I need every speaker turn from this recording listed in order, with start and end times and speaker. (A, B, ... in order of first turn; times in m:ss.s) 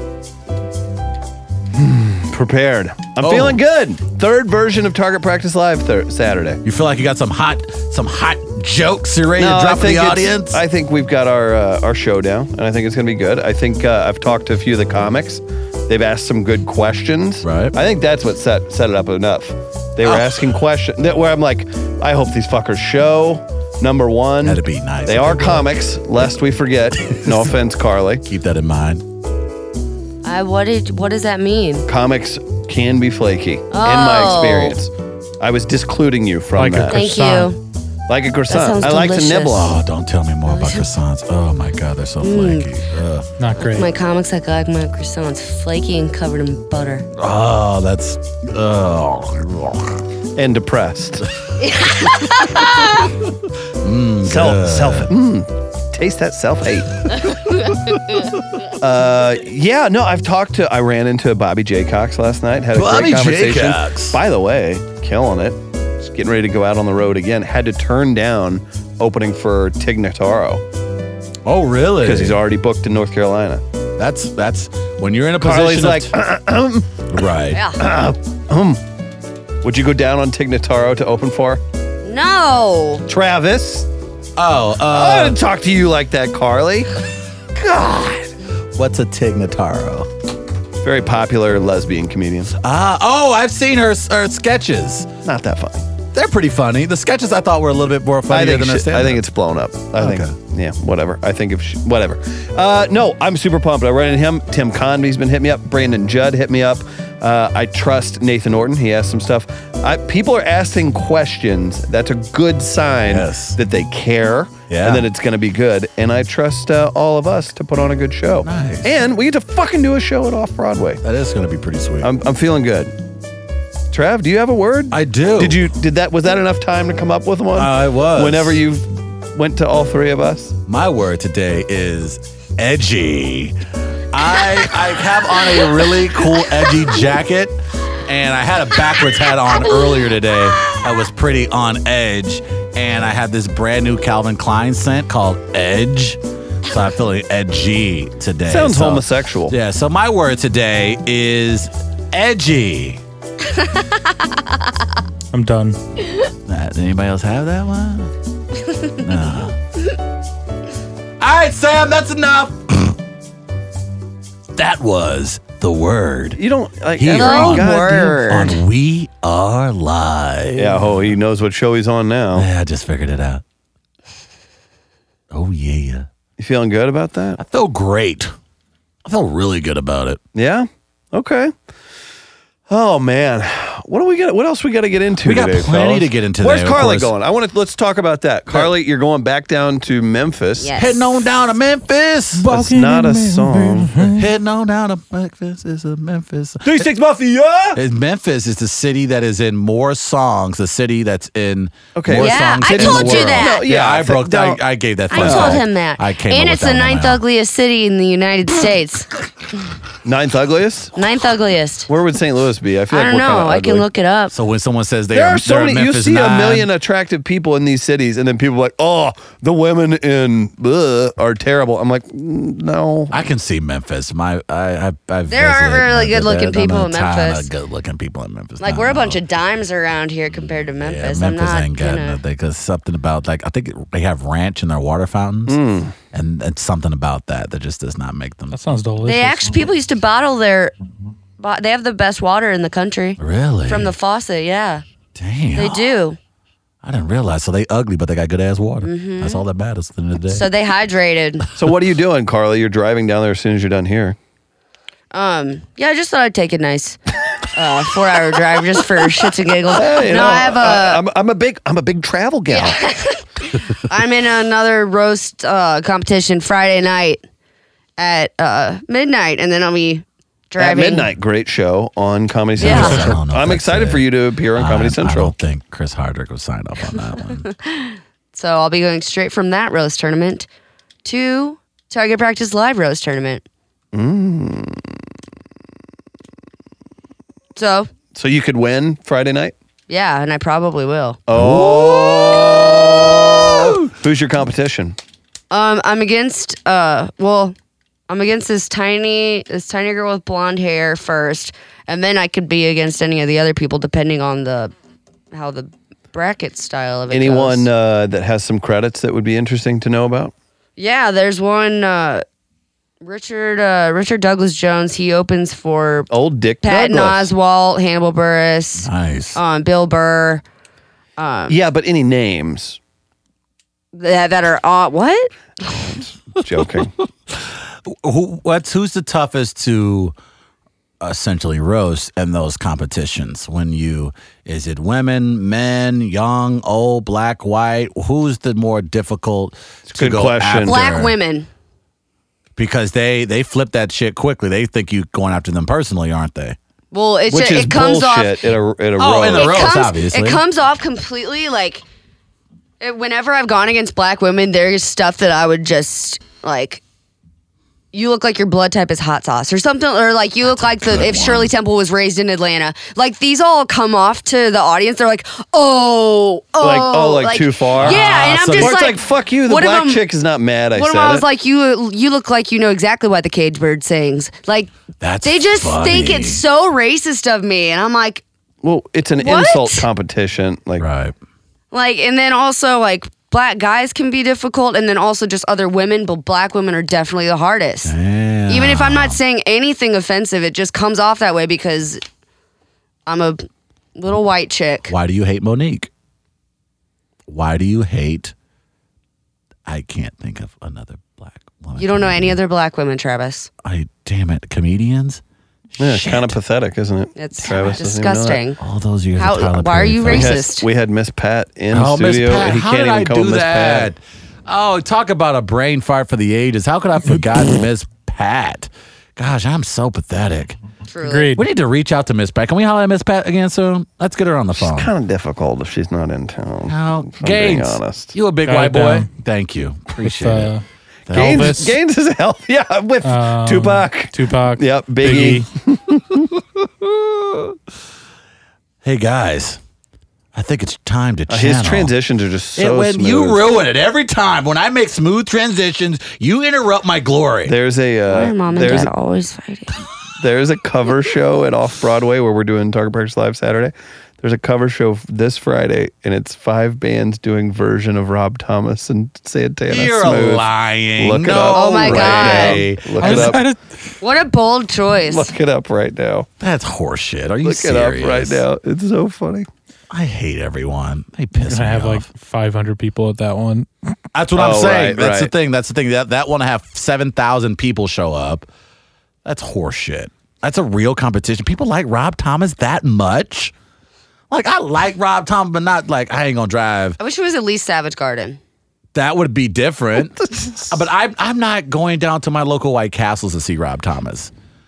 0:01.7-0:06.6 A
0:03.2-0:03.6 B
0:06.6-0:10.6 B
0:09.4-0:28.2 A
0:17.4-0:17.7 B
0:24.4-0:25.7 B
0:28.2-0:29.0 B
0:30.2-0:31.8 C
0:31.9-0:37.0 A
0:33.7-0:34.8 C
0:36.5-0:37.5 D
0:36.9-0:37.6 C
0:38.1-0:39.8 A
0:38.5-0:39.7 C
0:39.5-0:43.3 B
0:40.4-0:40.8 C
0:42.2-0:42.7 C
0:43.4-0:43.9 D
0:43.6-0:47.1 C
0:47.2-0:50.0 B
0:50.4-0:51.3 A
0:51.6-0:53.1 C
0:53.8-0:55.1 B
0:54.2-0:57.1 A
0:57.9-0:58.2 C
0:58.7-1:10.6 A
1:02.7-1:04.2 B
1:11.4-1:12.4 B
1:12.0-1:13.6 A
1:14.0-1:16.1 B
1:15.4-1:17.0 A
1:17.1-1:17.6 B
1:17.5-1:17.8 C
1:17.8-1:18.8 A
1:19.6-1:21.6 A
1:22.0-1:23.0 C
1:23.1-1:23.9 A
1:24.4-1:25.4 B
1:24.9-1:26.9 A
1:27.7-1:28.2 B
1:27.7-1:28.1 A
1:28.7-1:30.1 B
1:30.8-1:32.5 A
1:32.6-1:35.1 B
1:35.2-1:35.8 A
1:36.1-1:39.2 B
1:38.3-2:01.0 A
1:39.9-1:40.3 B
1:53.0-1:53.6 B
1:54.7-1:55.0 B
1:58.4-1:58.9 B
2:01.0-2:02.1 B
2:02.0-2:02.9 A
2:03.9-2:10.5 A
2:04.9-2:05.6 B
2:07.5-2:08.6 B
2:10.7-2:13.6 B
2:14.1-2:33.0 B
2:19.7-2:20.0 C
2:28.5-2:29.5 A
2:33.6-2:34.6 C
2:35.3-2:35.8 D
2:36.5-2:38.1 B
2:38.9-2:39.6 B
2:41.2-2:43.0 B
2:44.5-2:46.4 B
2:46.4-2:48.3 A
2:47.0-2:47.7 B
2:47.1-2:48.6 C
2:48.2-2:51.1 B
2:50.6-2:52.5 A
2:52.3-2:53.4 B
2:55.3-2:56.1 B
2:56.4-2:57.4 A
2:57.4-2:58.3 B
2:59.0-3:00.2 B
3:00.3-3:01.5 A
3:02.7-3:10.7 A
3:05.2-3:07.1 B
3:10.6-3:11.2 C
3:10.8-3:12.5 B
3:12.4-3:14.3 D
3:12.5-3:14.0 A
3:14.0-3:16.9 B
3:16.6-3:17.8 A
3:17.7-3:27.2 B
3:22.0-3:24.6 A
3:22.1-3:23.6 C
3:25.1-3:29.1 C
3:25.1-3:25.6 A
3:30.0-3:30.9 A
3:31.0-3:31.9 C
3:31.9-3:33.8 A
3:32.9-3:34.3 C
3:34.3-3:36.7 B
3:35.1-3:43.2 A
3:43.1-3:49.2 B
3:45.3-3:47.5 C
3:48.6-3:52.2 C
3:50.8-3:55.6 B
3:55.5-3:55.9 A
3:56.1-3:58.6 B
3:58.5-3:59.7 D
3:59.0-4:00.7 C
4:01.4-4:04.8 C
4:03.2-4:03.9 B
4:05.1-4:05.8 B
4:05.5-4:06.2 C
4:06.8-4:10.5 B
4:08.8-4:09.4 C
4:10.3-4:11.5 C
4:11.6-4:14.2 A
4:15.1-4:21.0 C
4:19.7-4:22.9 A
4:22.5-4:27.2 C
4:28.0-4:31.1 C
4:30.6-4:35.3 A
4:32.6-4:37.5 B
4:32.6-4:33.1 C
4:37.4-4:40.5 C
4:41.0-4:43.4 C
4:43.9-4:45.0 A
4:47.5-4:47.9 C
4:48.1-4:49.5 A
4:49.9-4:51.2 C
4:51.3-4:55.0 A
4:51.3-4:53.9 B
4:55.5-4:57.5 C
4:58.1-5:04.7 C
5:05.3-5:07.7 C
5:07.1-5:10.3 A
5:10.8-5:12.2 C
5:13.0-5:16.1 C
5:16.1-5:17.3 A
5:16.6-5:20.4 C
5:18.8-5:19.4 B
5:21.2-5:21.6 C
5:21.5-5:22.8 A
5:23.9-5:25.3 C
5:25.7-5:26.9 A
5:27.8-5:30.1 B
5:31.0-5:41.1 B
5:39.9-5:40.8 A
5:40.6-5:41.5 C
5:42.6-5:46.6 B
5:46.9-5:48.5 C
5:47.3-5:49.7 A
5:49.0-5:50.4 B
5:49.2-5:51.8 C
5:52.8-5:56.8 C
5:57.9-6:10.0 C
6:00.4-6:01.5 B
6:06.6-6:11.2 A
6:07.8-6:08.8 B
6:10.7-6:14.7 C
6:15.0-6:16.4 B
6:15.2-6:18.2 C
6:18.6-6:20.8 A
6:19.2-6:19.9 C
6:20.8-6:21.1 B
6:21.7-6:27.9 C
6:27.8-6:29.2 B
6:28.5-6:32.0 C
6:33.1-6:34.9 C
6:34.9-6:35.9 B
6:37.3-6:38.3 B
6:39.6-6:42.4 B
6:41.8-6:43.5 C
6:43.6-6:45.2 B
6:45.8-6:46.4 B
6:45.8-6:48.4 A
6:47.2-6:48.6 C
6:48.6-6:50.4 B
6:49.2-6:50.7 C
6:50.1-6:53.9 A
6:51.7-7:00.6 B
7:00.9-7:01.4 C
7:01.0-7:01.4 D
7:01.4-7:04.9 B
7:04.5-7:08.1 A
7:06.7-7:10.5 B
7:08.4-7:09.1 D
7:10.0-7:11.7 D
7:11.1-7:11.6 B
7:11.1-7:17.5 A
7:13.0-7:15.5 D
7:18.8-7:19.6 B
7:20.3-7:21.9 B
7:21.3-7:23.4 A
7:22.6-7:27.5 B
7:27.4-7:28.9 A
7:28.1-7:29.8 C
7:30.2-7:40.5 A
7:39.7-7:43.4 B
7:41.0-7:43.4 A
7:41.5-7:42.6 C
7:43.0-7:43.7 D
7:44.0-7:45.3 C
7:45.1-7:46.3 A
7:46.4-7:48.4 B
7:47.4-7:49.5 A
7:49.9-7:52.1 B
7:51.4-7:53.7 D
7:54.1-7:58.5 B
7:54.4-7:55.3 A
7:59.2-8:03.5 B
8:04.3-8:07.0 B
8:07.0-8:08.4 C
8:08.9-8:14.3 B
8:10.2-8:10.7 A